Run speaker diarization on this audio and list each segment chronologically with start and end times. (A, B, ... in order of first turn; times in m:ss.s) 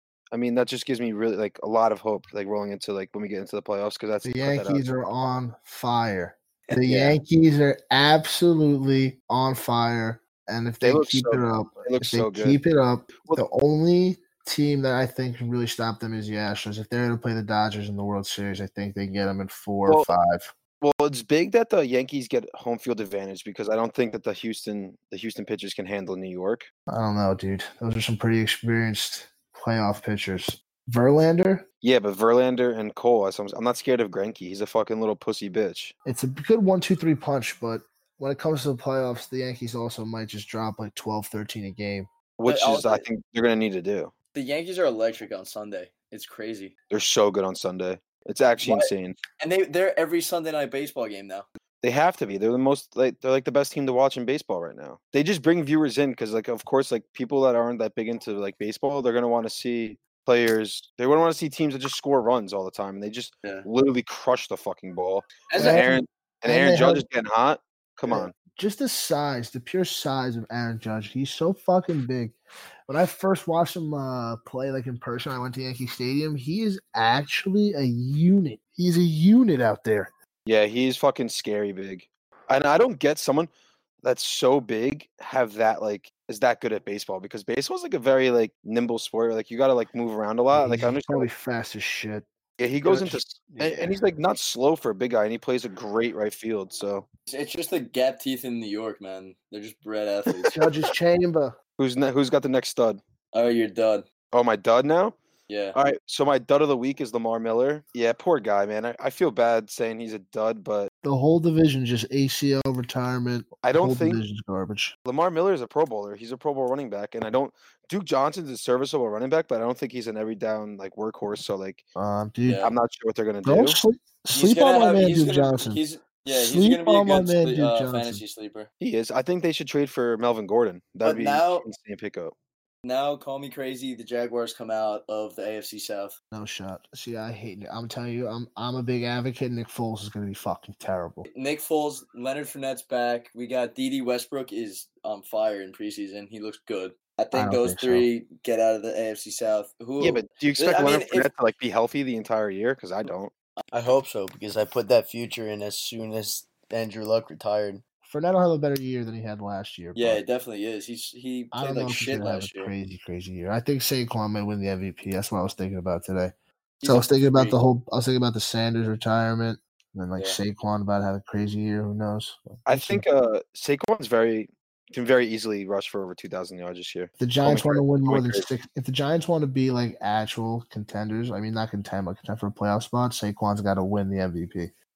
0:00.3-0:04.8 A
0:04.2-0:20.5 B
0:06.7-0:07.2 C
0:10.8-0:12.6 A
0:20.8-0:26.7 A
0:26.9-0:31.6 B
0:31.8-0:35.9 A
0:36.0-0:42.1 B
0:42.4-0:44.1 A
0:42.5-0:43.0 C
0:44.3-0:46.7 C
0:46.9-0:49.2 A
0:48.6-0:51.4 C
0:51.8-1:08.3 A
1:05.5-1:06.0 C
1:05.6-1:07.0 B
1:08.5-1:12.4 B
1:12.9-1:20.1 B
1:20.4-1:23.5 A
1:24.0-1:31.3 A
1:30.5-1:32.2 B
1:32.6-1:37.0 A
1:32.8-1:34.0 B
1:37.3-1:40.6 C
1:40.5-1:41.6 B
1:41.8-1:43.0 A
1:43.3-1:44.0 C
1:44.3-1:45.2 A
1:45.5-1:45.8 C
1:45.7-1:50.9 A
1:51.0-1:54.9 B
1:53.6-1:54.2 A
1:55.0-2:01.8 A
2:02.0-2:02.7 B
2:02.4-2:02.7 C
2:02.6-2:03.8 A
2:03.4-2:08.2 B
2:04.3-2:08.7 C
2:08.8-2:12.3 A
2:11.0-2:11.6 C
2:12.8-2:16.2 C
2:16.3-2:21.2 B
2:21.3-2:31.3 C
2:27.3-2:28.1 B
2:30.0-2:33.3 A
2:33.7-2:37.8 C
2:38.0-2:40.2 B
2:39.9-2:42.7 C
2:41.5-2:46.3 B
2:46.8-2:47.6 C
2:46.8-2:53.0 B
2:52.6-2:58.4 A
2:57.2-3:04.7 B